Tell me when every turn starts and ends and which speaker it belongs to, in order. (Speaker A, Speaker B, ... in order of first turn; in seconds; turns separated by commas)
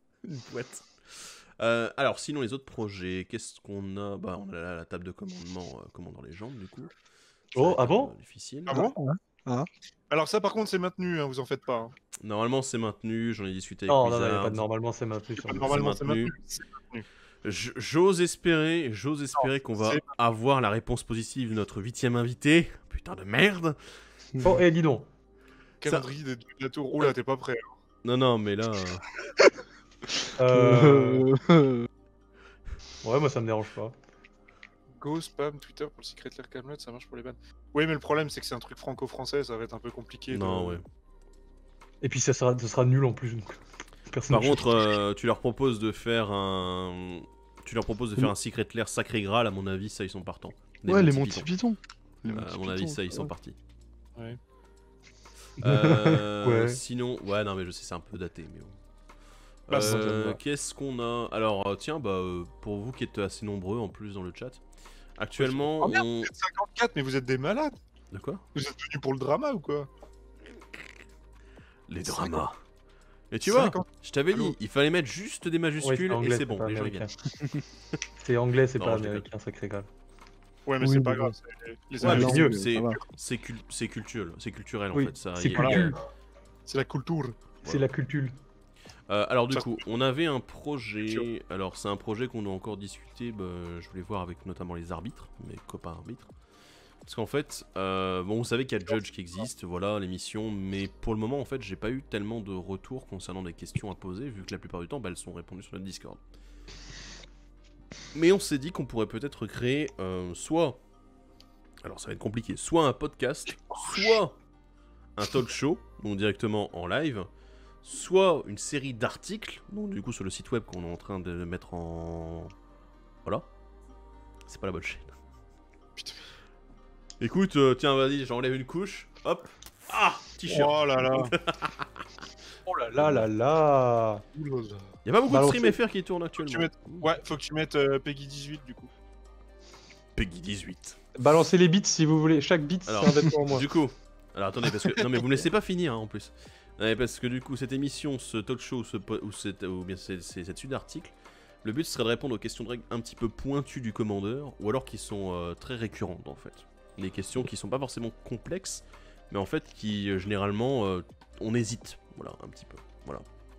Speaker A: 0.2-6.9, Speaker A: 7.5-8.8, Speaker B: 7.5-8.1, Speaker C: 8.7-9.0, Speaker D: 8.9-9.7, Speaker C: 10.1-11.9, Speaker A: 12.2-14.6, Speaker B: 13.9-15.9, Speaker C: 15.4-17.1, Speaker A: 15.6-16.3, Speaker A: 17.4-24.0, Speaker C: 19.4-20.0, Speaker B: 24.4-25.1, Speaker C: 25.8-27.6, Speaker A: 28.0-29.1, Speaker B: 30.4-31.3, Speaker D: 30.4-31.9, Speaker B: 33.0-34.0, Speaker C: 35.0-40.8, Speaker A: 40.3-40.9, Speaker B: 42.0-44.8, Speaker A: 44.3-51.5, Speaker D: 50.9-53.3, Speaker A: 52.3-53.6, Speaker A: 55.6-58.8, Speaker B: 55.6-56.8, Speaker A: 59.7-64.6, Speaker D: 59.7-60.4, Speaker B: 59.8-60.1, Speaker A: 65.2-66.3, Speaker C: 65.4-67.8, Speaker A: 68.1-68.5, Speaker C: 68.5-69.9, Speaker A: 71.9-72.6, Speaker C: 72.1-72.5, Speaker A: 73.3-77.1, Speaker C: 73.5-74.6, Speaker B: 75.8-77.1, Speaker B: 78.2-79.9, Speaker A: 78.8-79.3, Speaker C: 80.7-82.5, Speaker D: 80.8-81.3, Speaker D: 82.0-83.0, Speaker A: 82.0-86.0, Speaker B: 82.1-82.6, Speaker B: 84.9-86.0, Speaker C: 85.6-85.8, Speaker C: 86.7-87.4, Speaker B: 87.6-88.3, Speaker A: 89.1-96.3, Speaker A: 97.0-106.2, Speaker A: 108.1-110.8, Speaker A: 111.8-114.4, Speaker A: 115.2-117.3, Speaker A: 117.8-122.5, Speaker A: 124.5-125.1, Speaker C: 126.0-126.2, Speaker A: 127.2-131.9, Speaker C: 130.5-131.3, Speaker B: 132.7-134.2, Speaker A: 133.0-133.3, Speaker C: 134.3-134.9, Speaker A: 135.1-137.1, Speaker B: 135.3-135.8, Speaker C: 136.4-138.9, Speaker A: 140.2-141.0, Speaker B: 141.2-143.7, Speaker A: 142.9-163.2